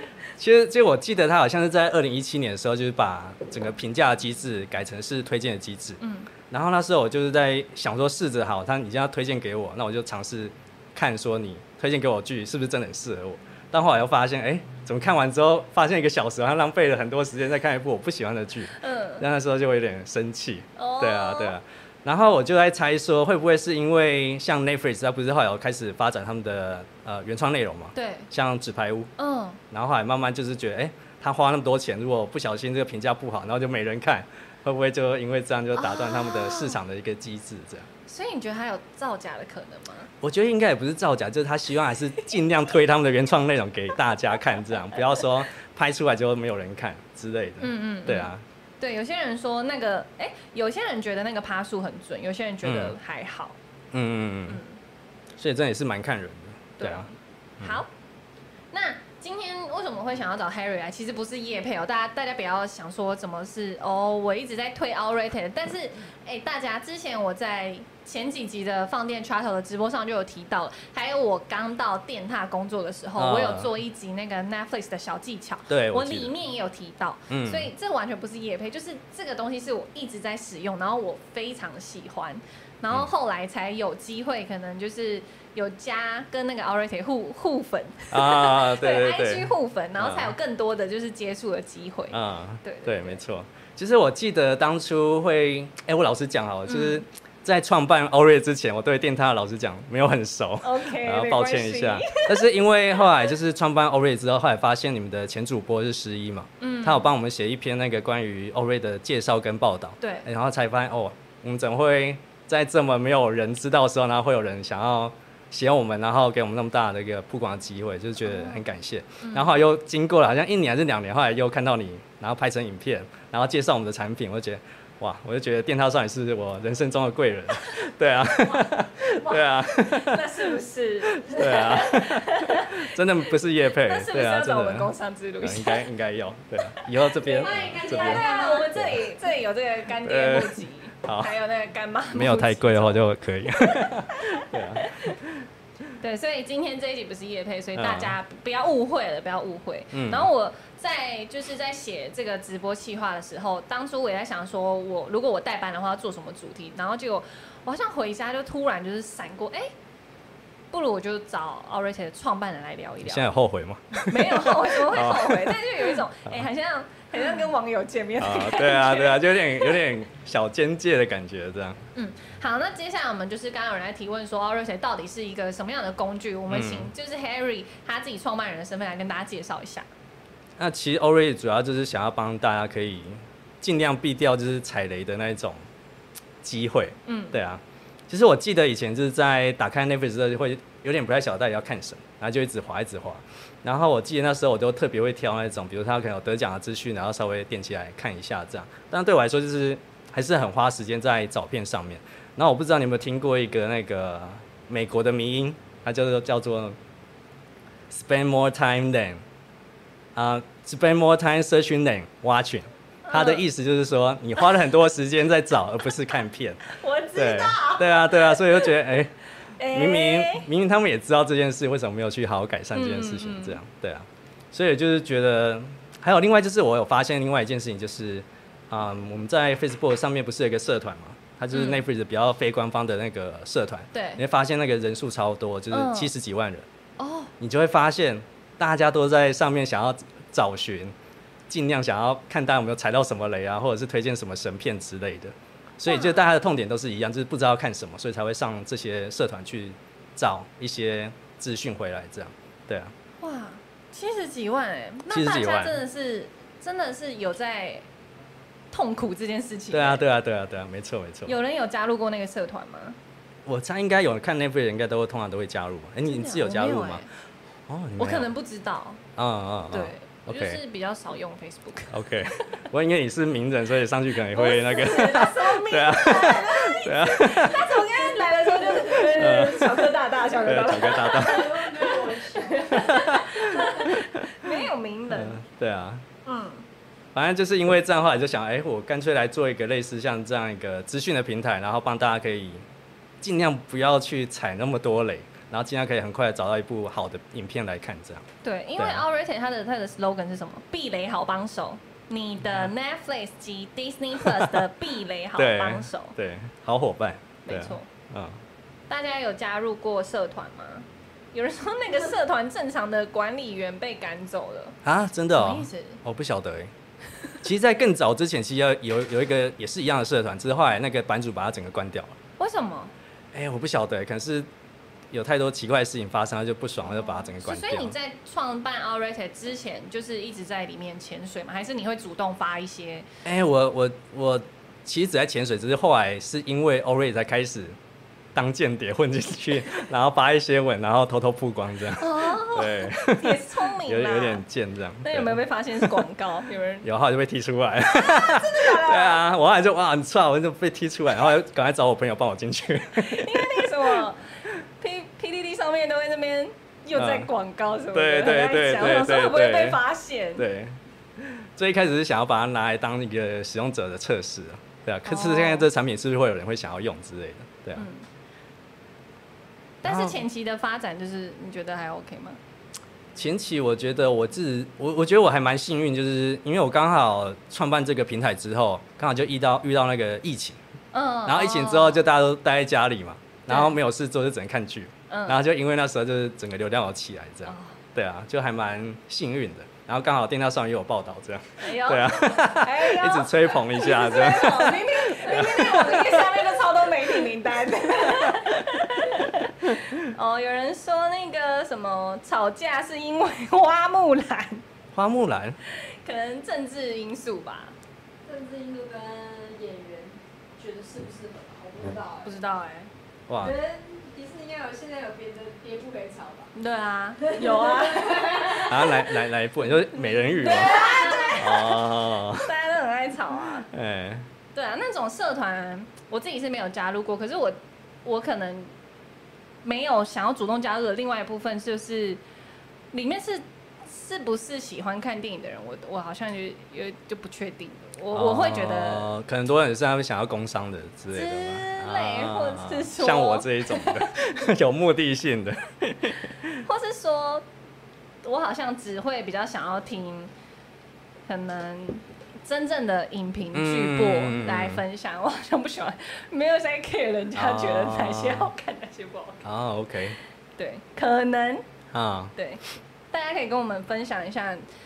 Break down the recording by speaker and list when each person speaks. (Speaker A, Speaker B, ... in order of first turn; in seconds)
Speaker A: 0.4-29.1, 29.7-37.9, 40.2-48.4, 52.6-53.0, 53.9-54.6, 55.4-57.8, 73.2-73.7, 75.7-76.3, 77.3-77.7, 88.1-90.3, 92.1-130.2, 131.1-139.0, 140.0-141.3, 142.1-145.4, 147.7-148.2, 149.9-150.3, 163.0-166.4, 168.2-171.8, 176.5-176.9, 180.6-185.6, 186.4-206.8, 207.9-209.2, 210.2-236.7, 237.4-240.9, 241.5-252.9, 255.1-255.8, 259.7-261.3, 263.4-267.0, 267.7-268.3, 269.2-270.6, 271.9-277.7, 279.1-281.4, 282.7-284.5, 285.1-286.0, 287.1-292.6, 293.2-298.2, 298.8-299.0, 304.2-304.6, 305.4-308.4, 314.8-316.7, 317.4-322.1, 323.3-324.5, 325.1-327.9, 333.2-337.8, 338.3-346.0, 346.8-353.9, 356.9-357.3, 357.9-359.8, 360.4-367.8, 369.8-370.2, 373.1-380.6, 381.2-396.3, 404.9-405.6, 413.3-413.6, 418.6-420.8, 421.4-422.5, 423.7-424.3, 438.1-446.6, 453.5-454.8, 457.3-458.5, 459.4-460.2, 461.9-462.3
Speaker B: 6.0-6.3, 18.8-19.2, 20.8-21.6, 27.9-28.3, 29.2-29.6, 35.8-36.8, 38.1-40.1, 47.6-48.3, 48.8-53.5, 54.5-54.8, 56.8-57.9, 58.7-93.2, 96.7-97.0, 100.6-103.3, 106.6-107.1, 110.0-110.2, 118.2-118.6, 119.2-119.5, 129.7-135.9, 136.7-145.2, 146.0-159.7, 160.7-163.3, 164.1-169.8, 171.9-179.9, 187.1-187.3, 213.1-213.4, 215.9-216.1, 216.7-218.7, 219.6-220.5, 222.7-223.6, 231.5-231.8, 233.9-234.2, 235.7-236.1, 237.0-237.3, 245.9-246.2, 253.2-257.9, 258.7-260.0, 261.2-263.0, 266.1-267.1, 268.0-269.0, 269.7-272.4, 274.3-285.4, 286.2-286.6, 298.4-306.1, 307.4-307.9, 308.9-314.8, 315.3-316.0, 322.4-322.9, 326.8-333.1, 342.0-344.4, 345.0-346.9, 347.8-349.2, 352.9-354.2, 354.8-360.4, 365.1-365.7, 367.8-368.0, 369.8-372.4, 380.9-382.0, 383.5-383.8, 385.1-385.4, 387.4-387.7, 391.6-404.6, 405.9-407.7, 412.2-412.9, 416.5-419.0, 420.1-423.7, 424.5-428.7, 429.6-432.2, 432.9-439.1, 441.1-444.1, 446.6-447.4, 448.2-450.3, 451.3-459.4, 460.6-461.6, 462.4-464.6
Speaker C: 137.2-138.9, 277.5-279.3, 280.6-283.9, 408.2-412.4, 413.4-416.5, 417.2-419.0, 420.4-421.6